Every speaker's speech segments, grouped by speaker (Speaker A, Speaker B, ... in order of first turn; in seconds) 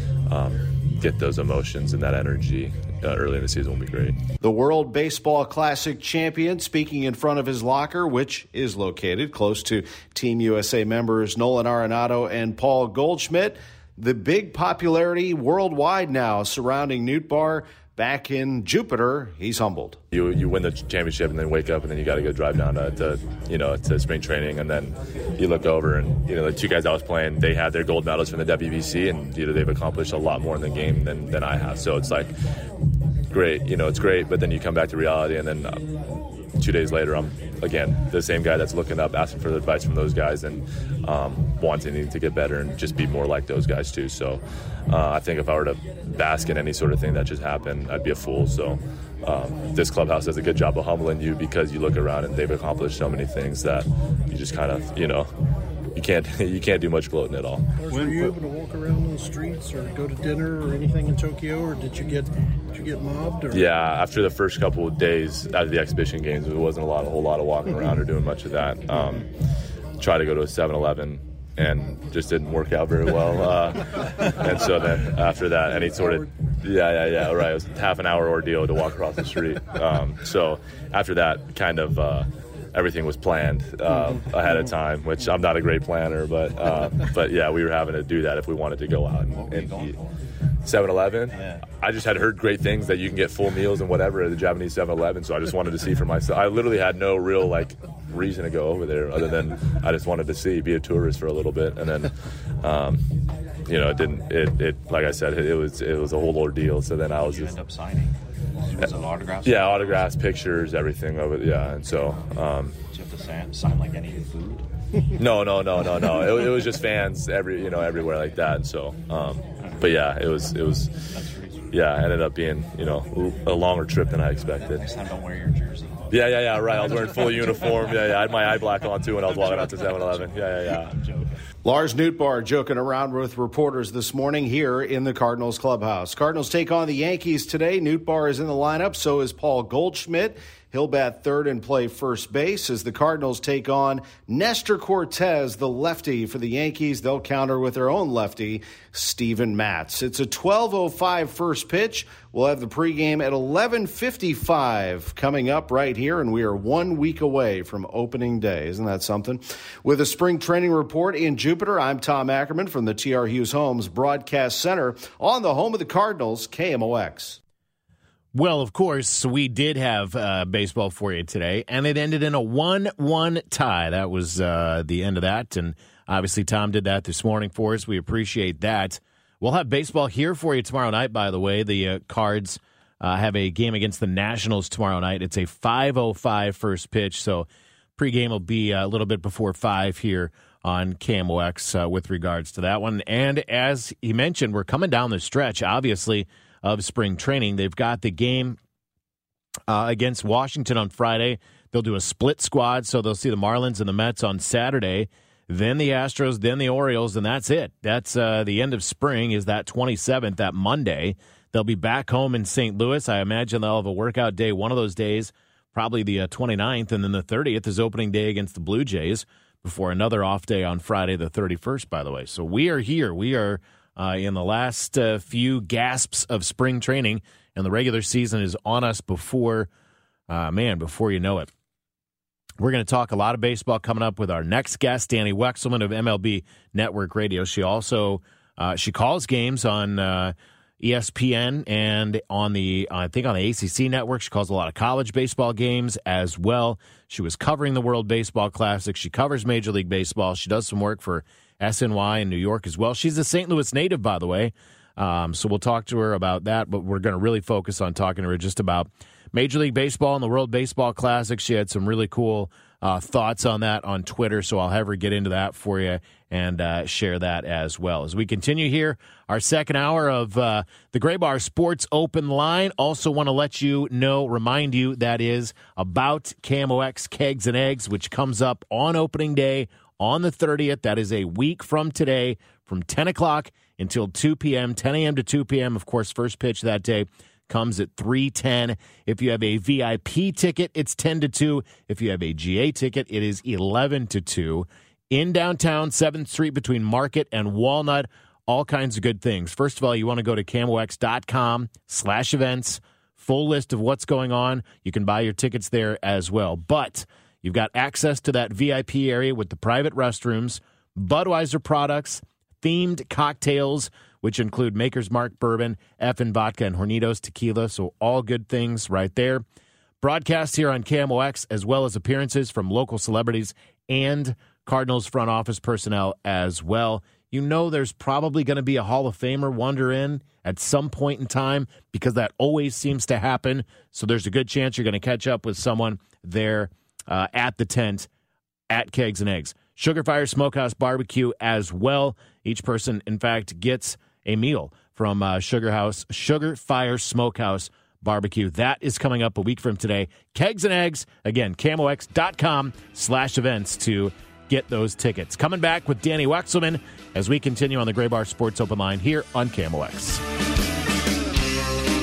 Speaker A: 0.3-4.2, 20.1-32.3, 33.3-35.8, 36.6-55.3, 56.0-57.7, 63.5-69.3, 70.0-90.0, 90.6-103.0, 103.7-107.6, 109.4-112.8, 115.2-121.0, 121.7-124.8, 126.1-130.9
Speaker B: 4.4-20.0, 131.6-167.4
Speaker C: 57.8-63.7
Speaker D: 89.2-90.0, 91.2-91.6, 107.1-110.2, 111.9-112.3, 112.9-114.6, 119.6-120.1, 121.1-121.7, 124.6-131.4
Speaker E: 168.3-198.6, 199.7-229.7, 230.3-231.5, 232.6-319.4, 320.0-338.1, 338.7-360.2